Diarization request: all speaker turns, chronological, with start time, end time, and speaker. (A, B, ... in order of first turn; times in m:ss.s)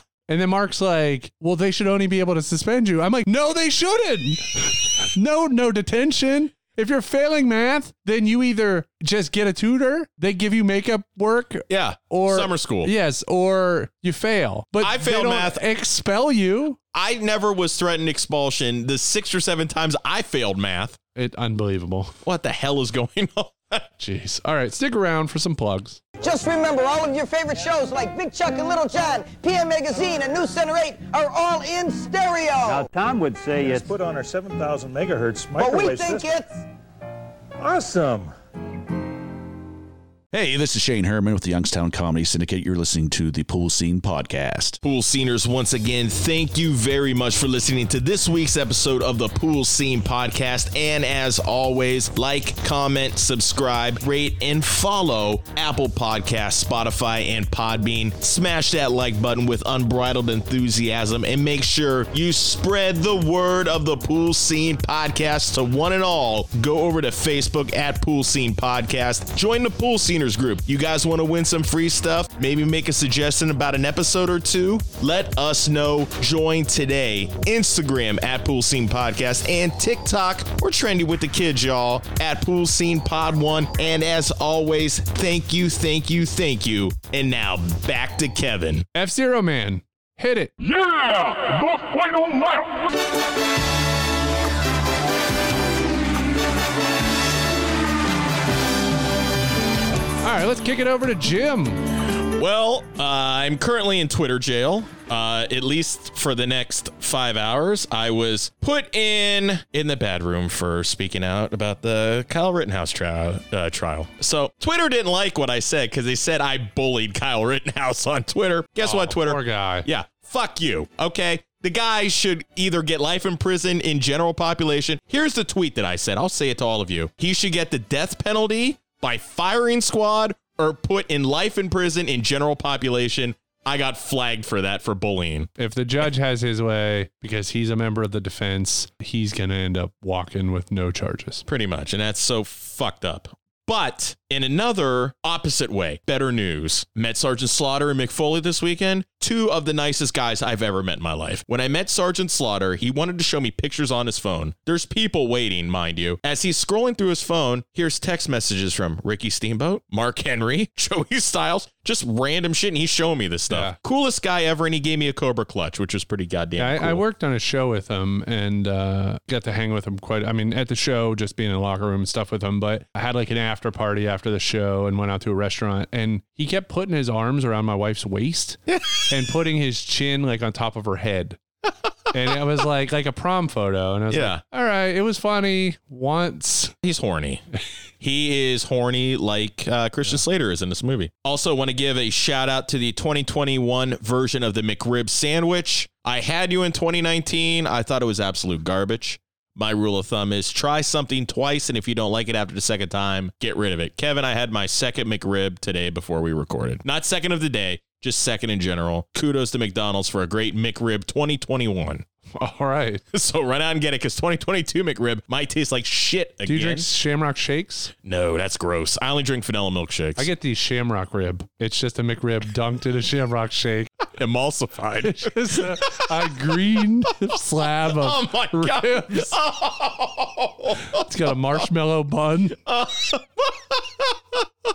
0:00.3-0:16.8 A
0:11.7-0:12.9 B
0:14.8-0:15.6 B
0:16.9-0:21.0 B
0:21.2-0:22.1 A
0:22.2-0:23.9 B
0:24.0-0:26.0 A
0:26.2-0:32.9 C
0:32.6-0:36.4 D
0:35.6-0:36.5 C
0:37.6-0:38.3 D
0:40.3-0:44.8 E
0:44.8-1:28.9 B
1:29.0-1:30.5 A
1:40.2-1:41.8 A
1:42.4-2:15.5 B
1:58.8-1:59.9 A
2:15.6-2:21.4 A
2:21.5-2:47.0 B
2:43.5-2:43.8 A
2:46.6-3:01.4 A
2:58.7-2:59.1 B
3:02.1-3:06.8 A
3:04.1-3:04.4 B
3:06.8-3:07.4 B
3:08.0-3:32.0 B
3:32.4-3:33.0 A
3:33.1-3:36.9 B
3:36.5-3:37.9 A
3:38.0-3:40.3 B
3:40.2-3:43.9 A
3:44.2-3:46.8 B
3:45.0-3:49.4 A
3:47.8-3:51.0 B
3:50.9-3:52.6 A
3:52.7-3:54.4 B